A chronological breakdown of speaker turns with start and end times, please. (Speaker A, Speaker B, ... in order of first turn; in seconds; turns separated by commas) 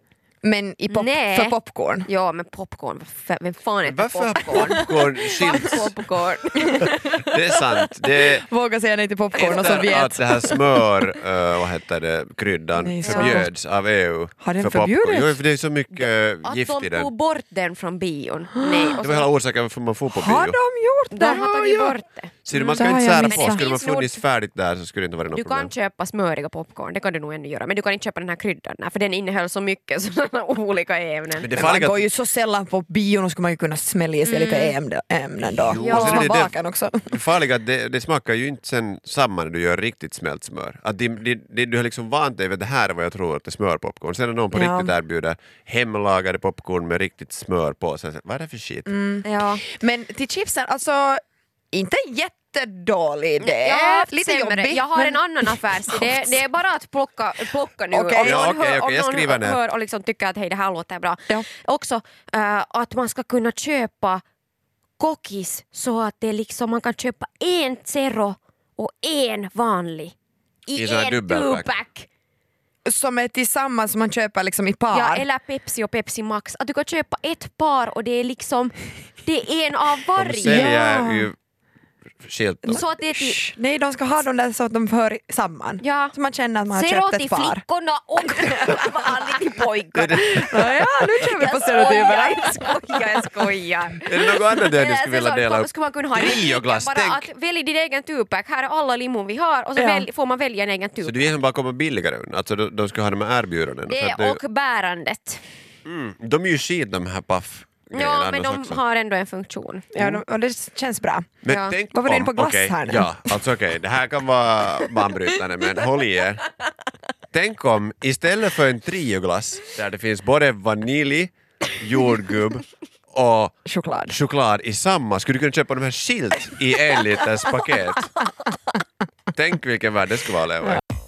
Speaker A: 0.4-2.1, Speaker B: 0.9-6.9, Speaker C: 3.8-5.9, Speaker A: 6.6-7.3, Speaker C: 7.2-8.4, Speaker A: 8.5-10.7, Speaker C: 9.3-17.1, Speaker A: 12.8-13.5, Speaker B: 13.0-13.5, Speaker A: 14.4-15.4, Speaker B: 15.9-19.3, Speaker A: 18.6-19.0, Speaker C: 19.0-20.6, Speaker A: 20.1-21.5, Speaker B: 21.1-24.2, Speaker C: 21.4-25.7, Speaker A: 22.8-23.6, Speaker B: 25.3-31.5, Speaker C: 31.4-32.0, Speaker A: 31.5-37.1, Speaker B: 34.2-34.8, Speaker C: 35.6-36.5, Speaker B: 35.7-36.4, Speaker C: 37.0-48.9, Speaker A: 44.5-44.9, Speaker A: 48.9-51.2, Speaker B: 49.2-49.6, Speaker A: 51.7-56.4, Speaker B: 53.4-64.2, Speaker A: 57.9-58.4, Speaker C: 58.2-59.6, Speaker B: 65.0-70.1, Speaker B: 70.7-72.1, Speaker C: 70.7-71.7, Speaker A: 72.8-75.2, Speaker B: 74.9-80.8, Speaker C: 80.2-81.4, Speaker A: 80.4-81.3, Speaker C: 82.2-82.8, Speaker A: 82.6-87.6, Speaker B: 82.7-83.4, Speaker B: 85.8-86.1, Speaker B: 86.7-90.7, Speaker A: 88.3-88.6, Speaker C: 89.9-90.7, Speaker A: 90.3-93.3, Speaker B: 91.2-101.3, Speaker C: 94.0-97.3, Speaker A: 99.8-100.1, Speaker C: 101.0-104.4, Speaker B: 103.9-105.4, Speaker C: 105.8-108.8, Speaker B: 107.9-109.9, Speaker A: 109.9-113.4, Speaker C: 110.0-110.2, Speaker C: 111.4-116.4, Speaker B: 111.5-111.8, Speaker C: 117.3-123.5, Speaker A: 123.7-124.1, Speaker C: 124.1-128.1, Speaker C: 129.3-130.8